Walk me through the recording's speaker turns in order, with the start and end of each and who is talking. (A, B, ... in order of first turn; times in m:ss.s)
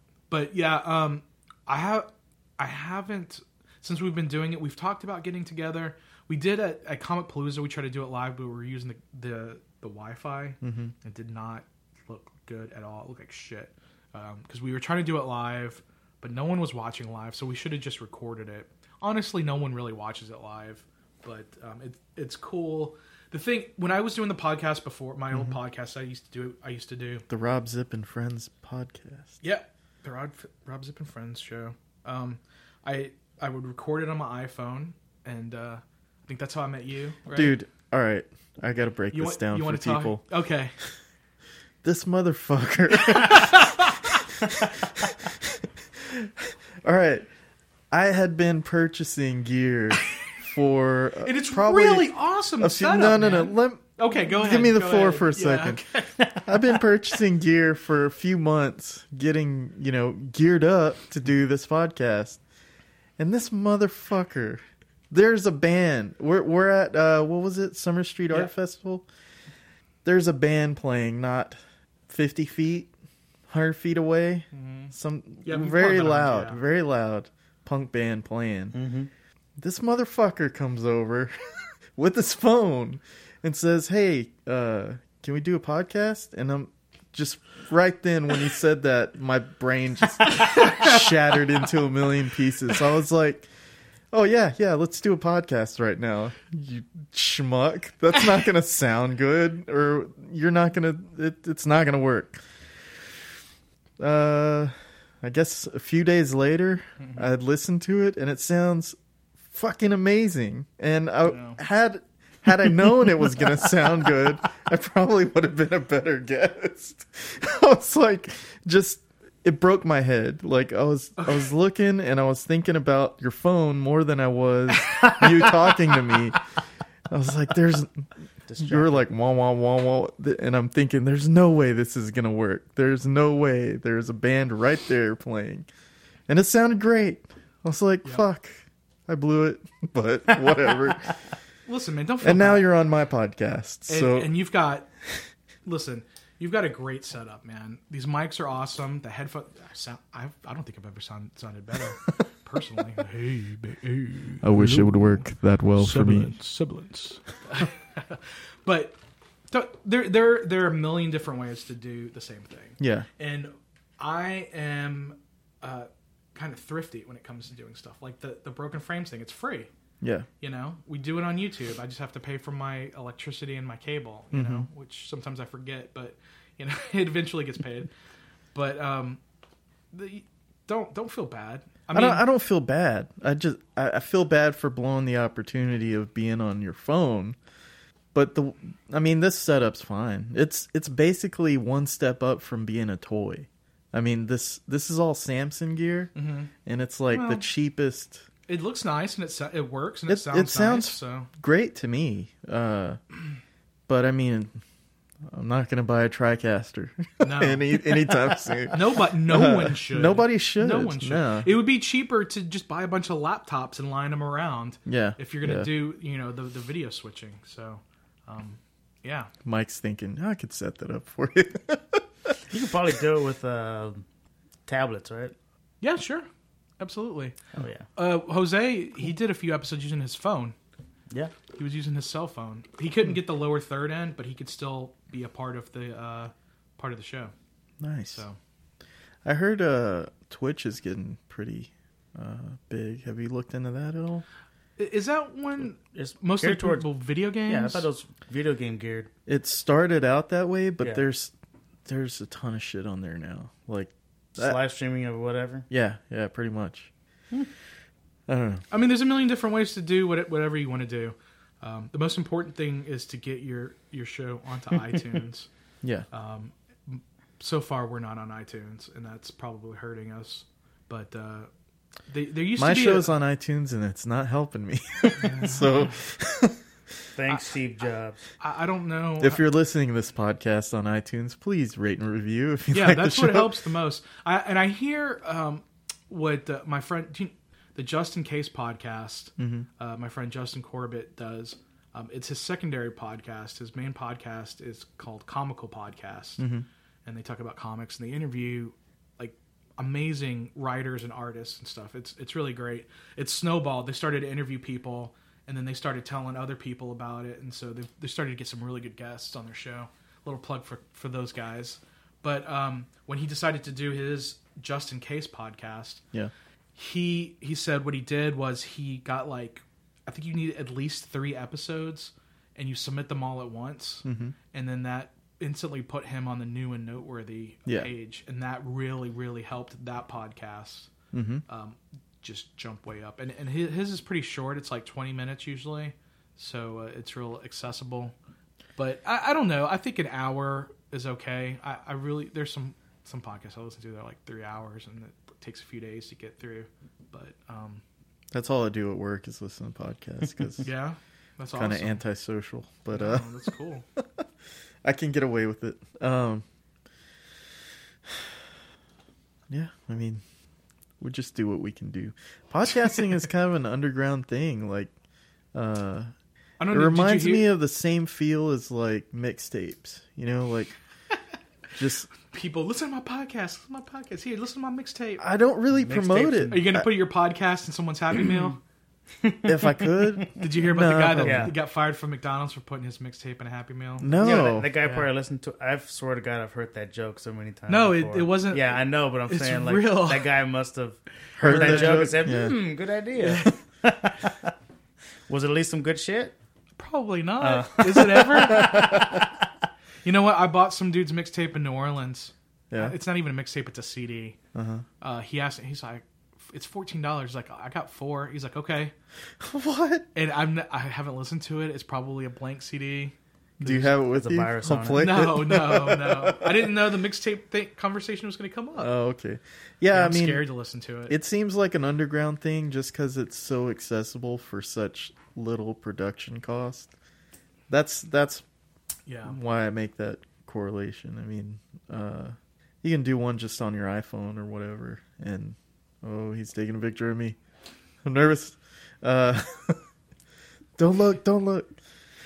0:00.3-0:27.2 A
0:10.6-0:10.9 B
0:27.3-0:29.4 B
0:29.4-0:37.6 A
0:37.3-0:40.2 B
0:39.1-0:40.8 A
0:41.8-0:43.9 B
0:43.1-0:43.8 A
0:44.4-0:47.3 B
0:47.9-0:55.8 B
0:51.2-0:56.8 A
0:56.4-1:02.4 B
1:03.2-1:09.1 B
1:10.0-1:11.6 B
1:12.1-1:12.9 B
1:13.5-1:18.8 B
1:14.5-1:14.9 A
1:15.4-1:16.6 A
1:18.7-1:19.1 C
1:19.6-1:33.5 B
1:30.5-1:30.9 A
1:34.1-1:42.4 B
1:44.0-1:49.0 B
1:49.5-2:06.4 B
1:51.3-1:51.6 A
2:01.2-2:01.5 A
2:07.1-2:08.1 B
2:08.5-2:09.0 C
2:08.6-2:15.7 B
2:16.3-2:21.2 B
2:21.7-2:22.7 A
2:22.2-2:24.3 B
2:23.9-2:24.9 A
2:25.7-2:35.2 A
2:34.4-2:36.4 B
2:35.8-2:39.0 A
2:39.5-2:49.7 A
2:42.8-2:43.1 B
2:50.0-2:50.3 B
2:50.4-2:57.9 A
2:54.3-2:54.7 B
2:58.5-2:59.2 A
2:59.9-3:02.2 A
3:01.9-3:07.4 B
3:08.1-3:16.1 B
3:16.2-3:16.5 A
3:16.6-3:18.2 B
3:17.1-3:17.4 A
3:18.5-3:21.3 A
3:20.1-3:23.0 B
3:23.9-3:24.6 B
3:25.3-3:31.5 B
3:27.2-3:28.1 A
3:28.7-3:39.3 A
3:34.9-3:35.7 B
3:39.4-3:42.4 B
3:42.5-3:44.1 C
3:44.7-3:45.4 C
3:45.8-3:46.3 A
3:46.8-3:47.4 A
3:47.6-3:47.9 C
3:48.0-3:50.6 A
3:51.6-3:57.3 A
3:57.8-3:58.2 B
3:59.2-4:04.2 B
4:04.8-4:07.9 A
4:05.8-4:06.9 C
4:07.5-4:09.1 C
4:09.3-4:11.3 B
4:11.9-4:14.6 B
4:14.4-4:15.7 C
4:15.7-4:16.9 B
4:18.3-4:18.6 B
4:18.7-4:25.5 A
4:26.1-4:31.5 A
4:32.1-4:33.1 A
4:32.6-4:36.6 B
4:35.2-4:36.0 A
4:37.2-4:38.2 C
4:38.4-4:39.5 A
4:39.2-4:43.5 B
4:42.7-4:56.4 A
4:49.4-4:49.7 B
4:56.4-4:56.7 B
4:57.1-5:16.0 A
5:16.8-5:30.9 A
5:24.0-5:24.4 B
5:31.1-5:31.4 B
5:31.5-5:38.1 A
5:38.8-5:47.8 A
5:48.3-5:50.7 B
5:50.6-5:52.0 A
5:51.5-5:53.3 B
5:52.9-5:53.8 A
5:54.8-5:56.4 B
5:59.5-6:00.2 B
6:01.0-6:04.9 B
6:05.5-6:06.1 B
6:06.6-6:07.5 A
6:06.7-6:10.8 B
6:11.8-6:12.1 B
6:12.2-6:15.2 A
6:15.2-6:16.9 B
6:15.7-6:16.7 C
6:16.5-6:18.6 A
6:19.2-6:20.4 C
6:19.4-6:21.6 B
6:20.4-6:25.1 A
6:21.2-6:21.6 C
6:24.0-6:24.7 B
6:24.1-6:34.5 C
6:27.7-6:30.4 A
6:31.4-6:32.7 B
6:31.4-6:32.3 A
6:35.3-6:36.4 C
6:36.8-6:39.0 A
6:37.4-6:39.3 C
6:38.6-6:39.0 B
6:40.0-6:44.4 A
6:42.7-6:43.0 B
6:44.6-6:44.8 B
6:45.0-6:48.9 A
6:49.4-6:50.1 B
6:50.2-6:54.0 A
6:53.6-6:56.6 B
6:54.1-6:55.1 C
6:54.9-6:58.9 A
6:58.8-7:00.4 B
6:59.9-7:01.2 A
7:01.1-7:06.9 B
7:07.7-7:08.4 B
7:09.1-7:09.4 A
7:09.2-7:17.4 B
7:18.0-7:19.8 B
7:20.8-7:21.8 B